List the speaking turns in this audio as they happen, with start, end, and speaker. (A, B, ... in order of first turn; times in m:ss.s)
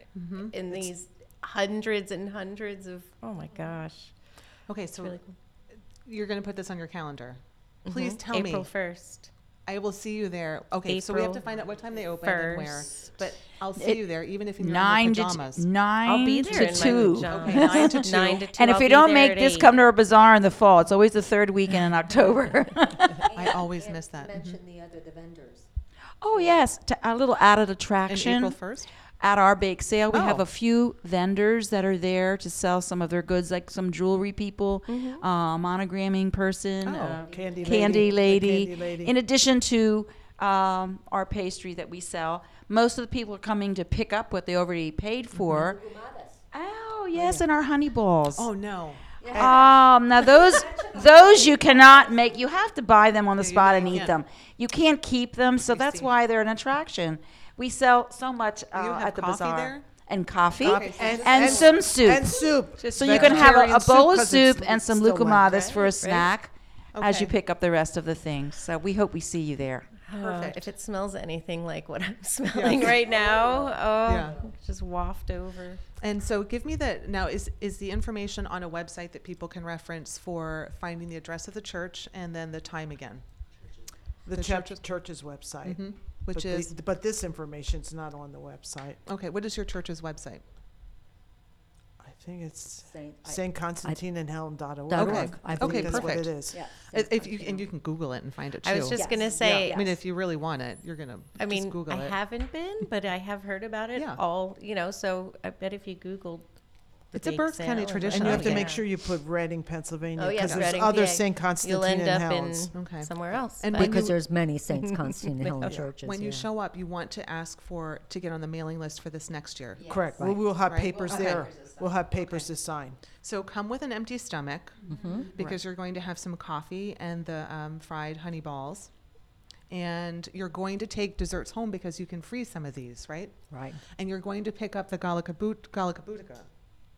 0:00.1-0:00.9 A
0:00.5-0:04.1 B
0:04.7-0:05.2 A
0:05.0-0:05.3 B
0:06.0-0:08.7 A
0:07.9-0:09.3 B
0:09.7-0:15.6 A
0:10.9-0:11.4 B
0:12.2-0:12.9 B
0:14.6-0:23.3 C
0:16.0-0:19.9 B
0:17.2-0:18.4 A
0:23.1-0:25.7 D
0:23.3-0:24.5 A
0:26.2-0:28.6 C
0:26.3-0:26.6 D
0:28.1-0:28.9 A
0:29.2-0:45.8 C
0:30.1-0:30.4 A
0:34.9-0:35.2 B
0:36.8-0:37.2 A
0:37.2-0:38.1 D
0:37.2-0:39.1 E
0:45.5-0:46.4 D
0:46.5-0:48.5 C
0:47.2-0:47.4 A
0:48.4-0:49.6 A
0:49.2-0:52.2 D
0:49.3-1:09.9 C
0:53.4-0:54.2 A
0:55.7-0:56.1 A
0:58.7-0:59.9 A
1:00.6-1:05.6 E
1:00.6-1:01.8 A
1:02.8-1:03.7 B
1:05.4-1:06.3 B
1:06.9-1:07.3 A
1:10.0-1:15.8 B
1:10.1-1:10.6 A
1:12.5-1:13.3 A
1:14.0-1:14.4 A
1:16.0-1:23.2 A
1:24.3-1:29.0 E
1:24.3-1:24.8 A
1:25.6-1:26.7 A
1:29.1-1:30.4 A
1:32.0-1:36.6 E
1:32.9-1:34.0 D
1:34.9-1:37.7 D
1:34.9-1:42.2 A
1:38.6-1:39.9 B
1:38.9-1:40.0 D
1:41.4-1:46.5 B
1:43.9-1:44.2 A
1:47.1-1:48.9 B
1:47.1-1:48.7 A
1:48.0-1:52.8 E
1:50.2-1:54.1 B
1:50.4-1:50.8 A
1:52.7-1:54.2 A
1:53.7-1:56.5 D
1:54.7-1:55.7 B
1:56.0-2:00.0 A
1:59.8-2:03.0 E
2:00.1-2:00.6 D
2:00.6-2:01.6 A
2:03.1-2:08.9 A
2:04.9-2:05.4 D
2:09.7-2:16.5 A
2:13.5-2:13.8 D